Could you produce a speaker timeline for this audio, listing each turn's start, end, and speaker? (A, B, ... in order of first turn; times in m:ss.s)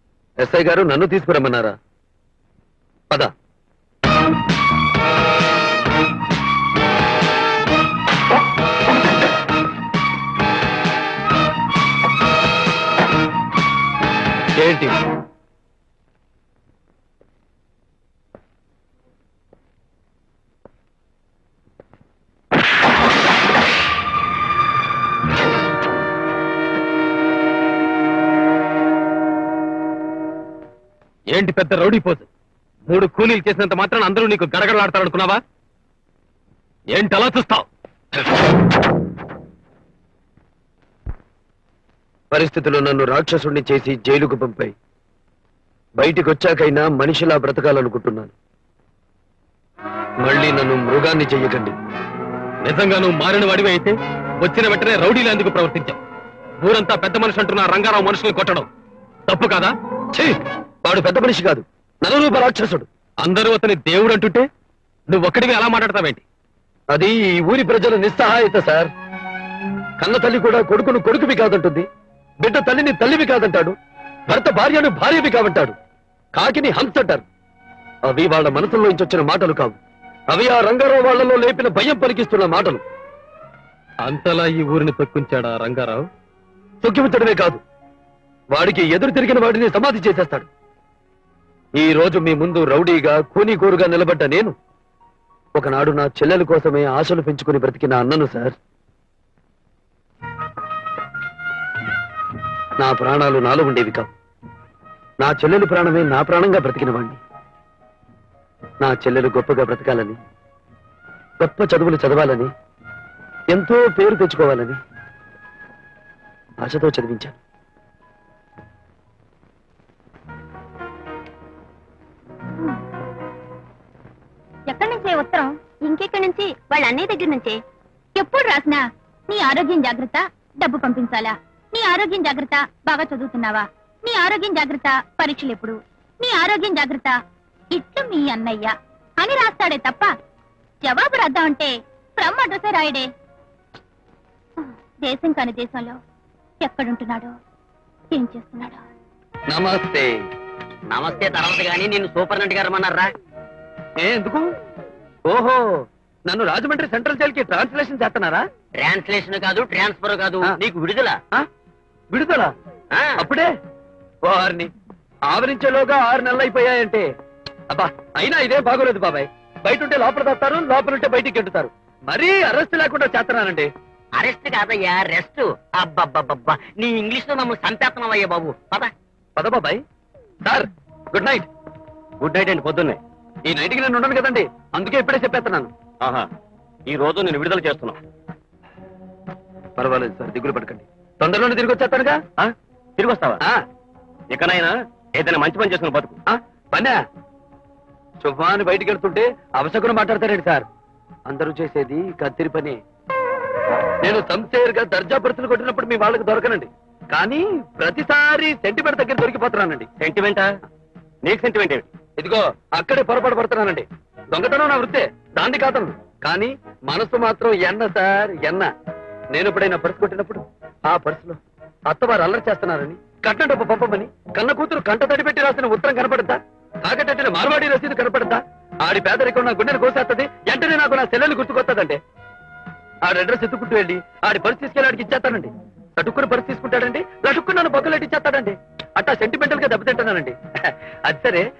0:00.4-0:01.8 A
0:14.6-0:15.0 A
0:31.3-0:32.3 B
0:32.9-0:35.4 B
0:36.9-0:37.7 B
0:42.3-0:44.7 A
0:46.0-0:48.3 A
0:50.2-0:51.8 A
0:52.6-0:56.0 B
0:56.6-0:58.7 B
0:59.3-0:59.7 B
1:00.1-1:02.9 A
1:03.2-1:04.5 B
1:05.1-1:06.2 B
1:06.9-1:08.9 A
1:10.0-1:11.9 A
1:12.4-1:13.8 A
1:14.3-1:15.8 A
1:16.4-1:17.2 A
1:18.1-1:19.8 A
1:20.3-1:22.8 A
1:24.0-1:26.1 B
1:26.8-1:27.6 A
1:28.5-1:30.5 A
1:31.8-1:34.6 A
1:35.6-1:38.6 A
1:42.8-1:44.1 A
1:45.2-1:47.2 A
1:48.8-1:50.2 A
1:51.4-1:52.5 A
1:53.5-1:54.8 A
1:56.6-1:57.4 A
2:04.7-2:05.6 C
2:08.2-2:17.2 C
2:17.7-2:20.1 C
2:20.8-2:23.1 C
2:24.6-2:26.0 C
2:26.6-2:27.3 C
2:28.1-2:28.8 C
2:29.5-2:30.1 A
2:30.9-2:33.1 D
2:34.0-2:34.5 A
2:35.3-2:35.7 A
2:36.3-2:38.4 A
2:38.8-2:41.2 D
2:42.1-2:42.5 A
2:42.9-2:43.2 D
2:43.2-2:43.5 A
2:44.2-2:44.7 A
2:45.3-2:47.1 A
2:47.7-2:53.7 A
2:54.2-2:58.9 D
2:59.4-2:59.8 A
3:00.4-3:01.5 A
3:02.2-3:03.0 E
3:03.4-3:05.7 A
3:06.0-3:06.3 E
3:06.9-3:08.0 E
3:09.8-3:12.2 A
3:12.4-3:13.4 E
3:14.3-3:16.2 E
3:16.3-3:17.0 A
3:18.2-3:20.7 A
3:21.3-3:22.8 A
3:24.0-3:29.9 A
3:30.0-3:30.6 E
3:31.2-3:31.9 E
3:32.2-3:38.7 A
3:39.3-3:52.0 A
3:53.1-4:01.4 A